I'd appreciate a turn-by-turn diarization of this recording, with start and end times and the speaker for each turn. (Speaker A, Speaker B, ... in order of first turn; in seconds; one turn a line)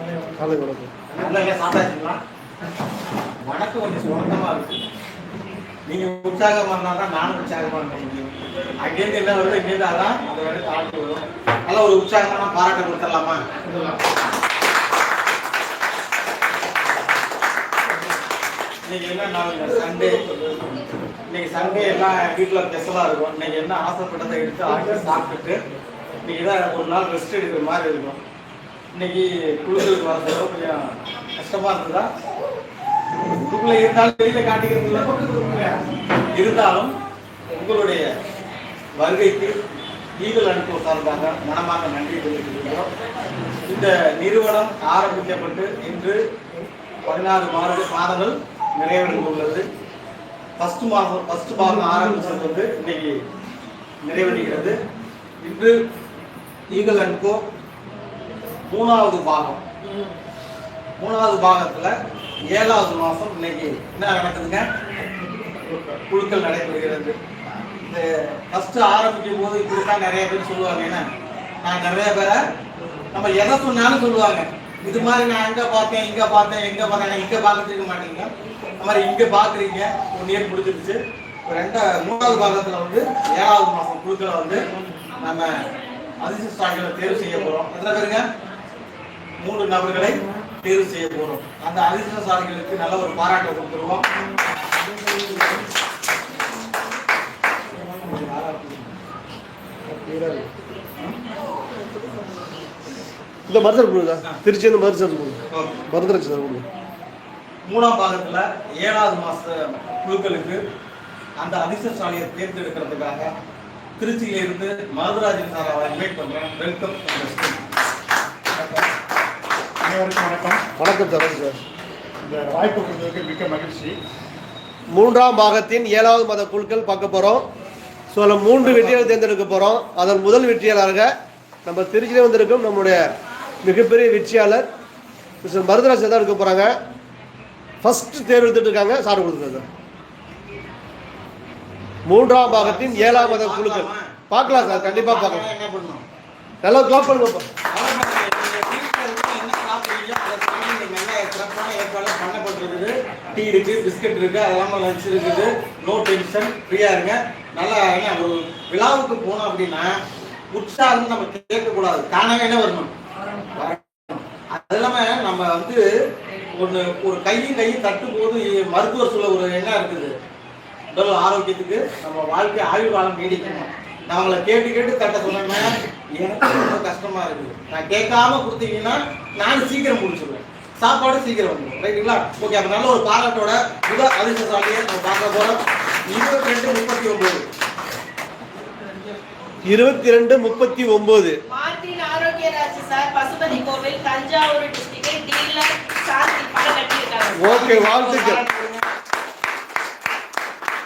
Speaker A: 0.4-0.9
Speaker B: 1.1-2.2
Speaker B: 3.4-4.8
Speaker B: 5.9-13.4
Speaker B: 18.8-20.7
Speaker B: 21.3-25.6
Speaker B: 26.2-28.2
Speaker B: 28.9-32.1
Speaker B: 33.4-35.8
Speaker B: 36.3-36.9
Speaker B: 37.5-38.1
Speaker B: 39.0-39.5
Speaker B: 40.2-42.9
Speaker C: 43.0-43.6
Speaker B: 43.6-46.2
Speaker B: 47.0-49.7
Speaker B: 50.6-53.2
Speaker B: 54.0-54.8
Speaker B: 55.4-55.8
Speaker B: 56.7-57.4
Speaker B: 58.7-59.6
Speaker B: 61.0-61.9
Speaker B: 62.5-64.6
Speaker D: 65.7-65.9
Speaker B: 66.1-67.2
Speaker B: 67.8-71.0
Speaker B: 71.6-72.4
Speaker B: 73.1-84.6
Speaker B: 85.2-85.5
Speaker B: 86.2-88.2
Speaker B: 89.4-94.0
Speaker B: 98.0-98.9
Speaker D: 100.0-100.4
Speaker C: 101.7-102.5
Speaker A: 103.5-106.7
Speaker B: 105.5-105.8
Speaker B: 107.6-110.6
Speaker B: 111.4-113.3
Speaker B: 114.0-117.6
Speaker D: 118.5-118.8
Speaker D: 119.8-120.7
Speaker A: 120.8-121.6
Speaker D: 122.2-124.0
Speaker A: 124.9-127.4
Speaker A: 128.1-131.1
Speaker D: 128.6-129.0
Speaker A: 131.6-133.0
Speaker A: 133.6-134.7
Speaker A: 135.4-136.7
Speaker A: 137.8-139.7
Speaker A: 142.1-145.4
Speaker B: 142.4-146.0
Speaker A: 146.6-147.5
Speaker B: 147.7-159.9
Speaker B: 160.5-162.9
Speaker B: 163.5-165.8
Speaker B: 166.5-170.1
Speaker B: 170.9-187.4
Speaker A: 189.7-191.3
Speaker C: 191.5-197.5
Speaker A: 197.3-198.4
Speaker B: 197.4-198.8